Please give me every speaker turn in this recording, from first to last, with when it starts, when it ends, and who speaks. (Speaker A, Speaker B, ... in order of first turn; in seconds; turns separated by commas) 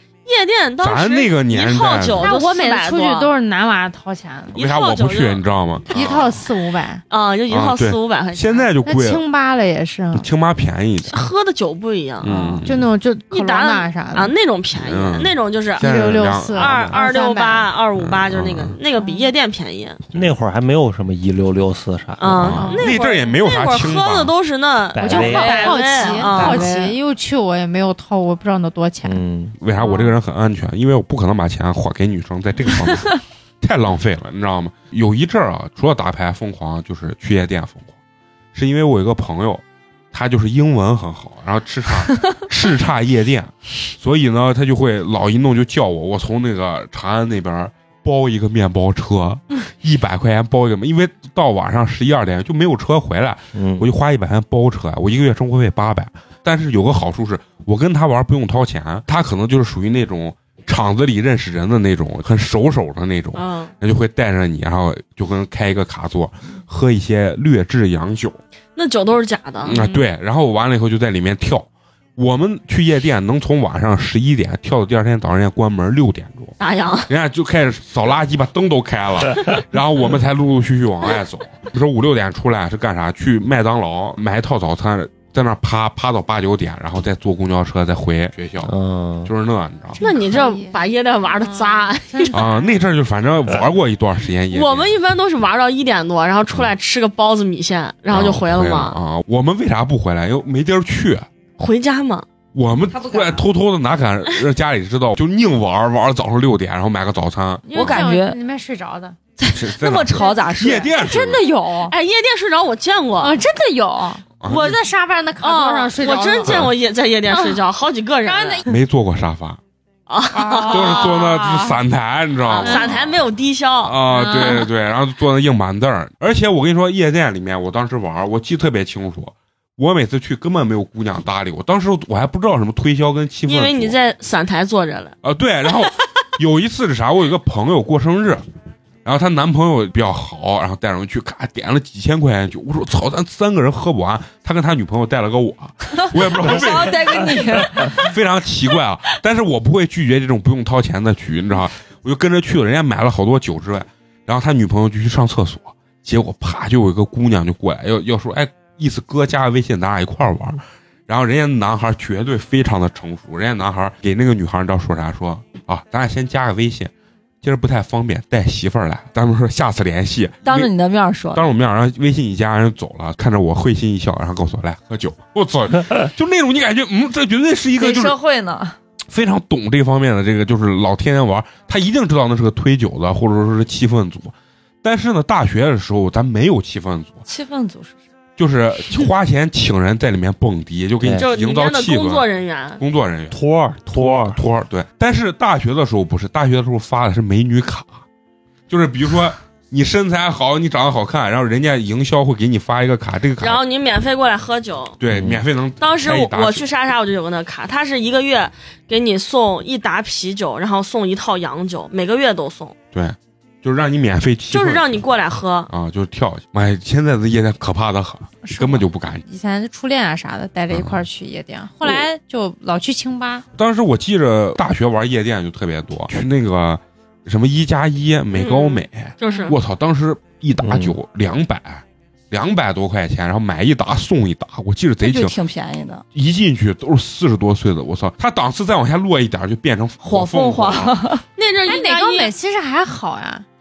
Speaker A: 0.2-3.3, Speaker B: 0.8-2.3, Speaker C: 2.2-4.6, Speaker A: 4.5-5.4, Speaker B: 4.5-6.4, Speaker C: 5.9-7.0, Speaker A: 7.1-8.7, Speaker B: 7.5-9.2, Speaker C: 8.8-10.3, Speaker B: 10.1-11.2, Speaker A: 11.1-12.6, Speaker B: 12.2-12.9, Speaker C: 12.6-14.3, Speaker A: 13.3-20.0, Speaker B: 14.8-17.0, Speaker C: 15.8-17.7, Speaker B: 18.0-18.8, Speaker C: 19.0-19.3, Speaker D: 20.1-22.6, Speaker A: 22.2-26.7, Speaker B: 22.4-24.3, Speaker C: 22.6-23.0, Speaker D: 24.9-25.8, Speaker C: 25.0-29.2, Speaker E: 25.2-26.9, Speaker D: 29.0-29.5, Speaker B: 29.6-37.9, Speaker C: 29.8-30.1, Speaker B: 38.5-68.4, Speaker D: 53.5-53.9, Speaker A: 63.4-63.7, Speaker A: 68.8-70.0, Speaker B: 69.6-76.5, Speaker A: 76.6-77.1, Speaker B: 77.1-88.7, Speaker D: 88.6-89.3, Speaker B: 89.2-90.0, Speaker C: 90.0-90.8, Speaker A: 90.0-92.5, Speaker C: 91.4-92.8, Speaker B: 92.3-94.9, Speaker A: 94.5-99.0, Speaker B: 98.1-101.3, Speaker A: 101.6-102.2, Speaker B: 102.5-108.0, Speaker E: 102.9-103.4, Speaker C: 107.7-109.2, Speaker E: 107.7-108.4, Speaker E: 109.4-110.9, Speaker B: 109.5-111.5, Speaker C: 110.9-111.9, Speaker A: 111.9-113.4, Speaker C: 113.2-116.7, Speaker B: 114.4-114.8, Speaker A: 115.4-118.6, Speaker C: 117.3-117.6, Speaker C: 118.2-118.7, Speaker B: 118.7-119.6, Speaker A: 120.1-121.5, Speaker C: 120.3-121.8, Speaker B: 120.7-123.2, Speaker A: 122.5-124.6, Speaker C: 122.6-123.0, Speaker B: 123.8-133.9, Speaker C: 124.1-124.7, Speaker A: 133.4-135.2, Speaker B: 135.2-138.4, Speaker B: 139.0-170.7, Speaker E: 146.0-148.1, Speaker E: 170.4-171.4, Speaker B: 171.3-178.2, Speaker E: 177.8-178.8, Speaker B: 179.1-187.2, Speaker E: 187.3-187.9, Speaker B: 188.4-192.3, Speaker D: 191.0-191.3, Speaker A: 191.2-192.8, Speaker B: 192.8-193.4, Speaker D: 193.3-194.4, Speaker B: 193.9-198.0, Speaker B: 198.7-203.6, Speaker A: 203.4-205.0, Speaker B: 205.0-206.6, Speaker D: 205.1-205.4, Speaker A: 205.8-212.7, Speaker B: 212.9-214.8, Speaker A: 214.5-215.7, Speaker B: 215.7-219.2, Speaker C: 218.4-223.4, Speaker B: 220.7-221.0, Speaker B: 223.6-235.3, Speaker A: 228.3-229.6, Speaker D: 230.6-230.9, Speaker E: 235.0-236.0, Speaker B: 236.1-240.9, Speaker E: 240.0-241.2, Speaker A: 241.4-242.3, Speaker C: 241.7-243.4